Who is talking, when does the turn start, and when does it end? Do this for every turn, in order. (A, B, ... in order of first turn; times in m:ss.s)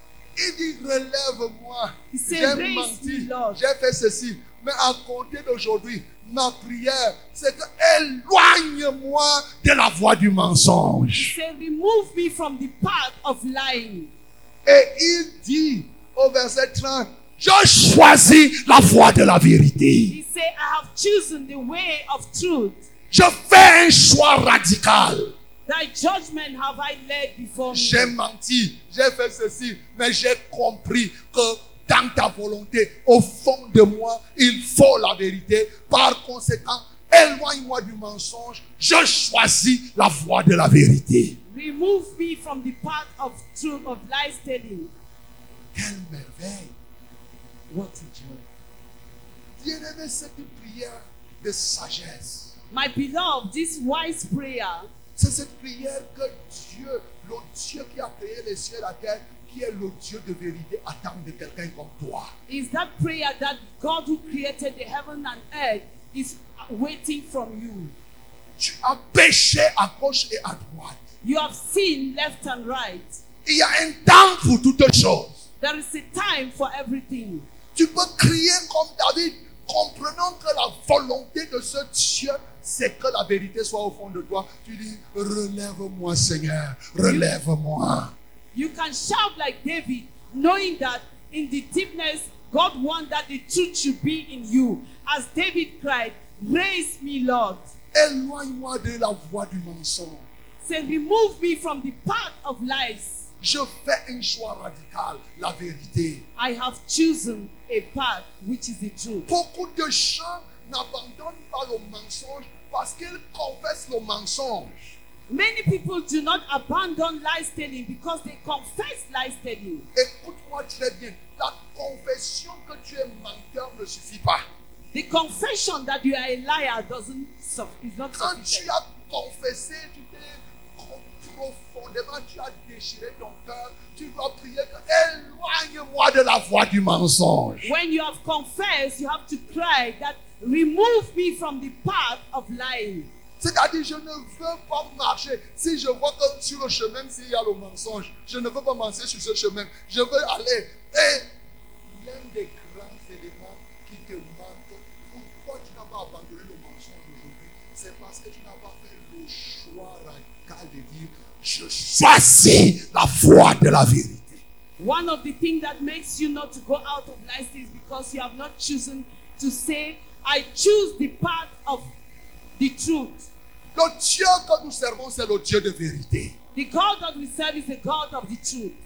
0:00.4-0:11.4 A
0:02.1-0:03.6 B
0:11.1-0:14.1 B
0:14.6-0:20.2 A
0:20.1-0:22.8 B
0:23.1-0:25.3 A
0:25.6-0:28.1 B
0:27.7-0:41.4 A
0:41.5-0:44.9 B
0:45.7-0:46.7 A
0:47.7-0:48.4 B
0:49.6-0:52.5 A
0:52.7-0:54.9 B
0:55.2-1:02.3 A
1:02.5-1:07.9 B
1:08.6-1:11.0 A
1:11.2-1:13.2 B
1:13.4-1:15.4 A
1:15.6-1:17.4 B
1:17.7-1:28.1 A
1:28.5-1:37.6 B
1:37.9-1:40.2 A
1:40.6-1:43.2 B
1:43.4-1:46.2 A
1:46.4-1:49.3 B
1:49.3-1:54.8 A
1:55.3-1:59.8 B
1:59.9-2:04.4 A
2:04.9-2:08.7 B
2:08.2-2:17.7 A
2:17.6-2:23.1 B
2:23.4-2:31.3 A
2:31.9-2:44.4 A
2:44.8-2:51.9 B
2:52.6-2:53.3 B
2:53.7-2:56.3 A
2:56.5-2:58.8 B